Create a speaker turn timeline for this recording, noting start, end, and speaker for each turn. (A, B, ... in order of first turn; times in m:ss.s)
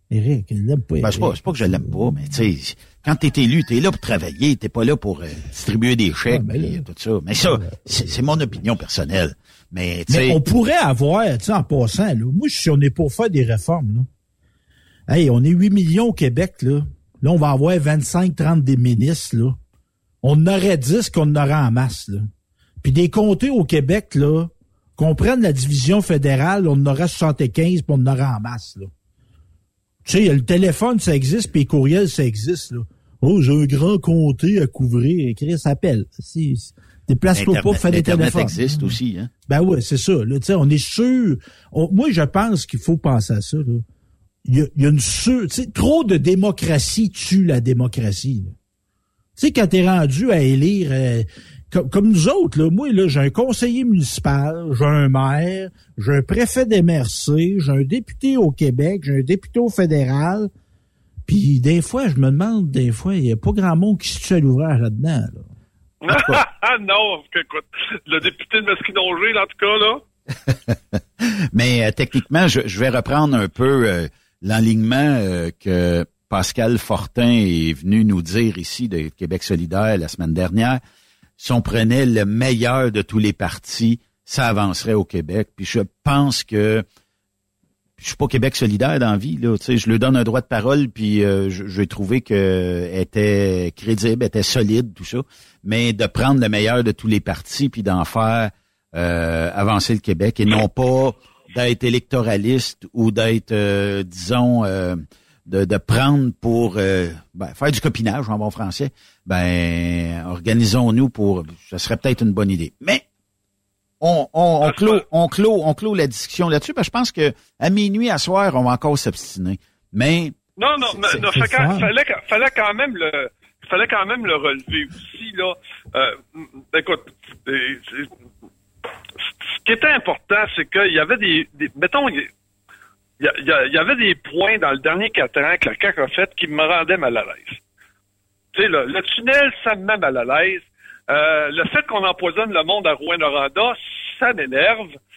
0:00.1-0:02.4 A
0:01.0-0:10.4 B
0:06.3-0:08.2 A
0:10.1-0:14.1 A
0:15.1-0:19.6 A
0:20.2-0:22.3 A
0:22.8-0:28.9 A
0:30.0-0:39.0 A
0:37.3-0:39.3 B
0:39.5-0:43.8 A
0:44.4-0:48.5 A
0:49.4-1:00.5 A
1:01.3-1:05.4 A
1:06.0-1:10.0 C
1:06.1-1:06.4 B
1:10.5-1:11.0 B
1:11.5-1:20.8 B
1:21.4-1:26.8 B
1:28.0-1:53.0 B
1:54.0-2:01.2 B
1:54.6-1:55.0 C
2:00.6-2:08.1 C
2:01.2-2:01.9 A
2:09.5-2:12.3 C
2:13.2-2:17.6 C
2:18.5-2:25.0 C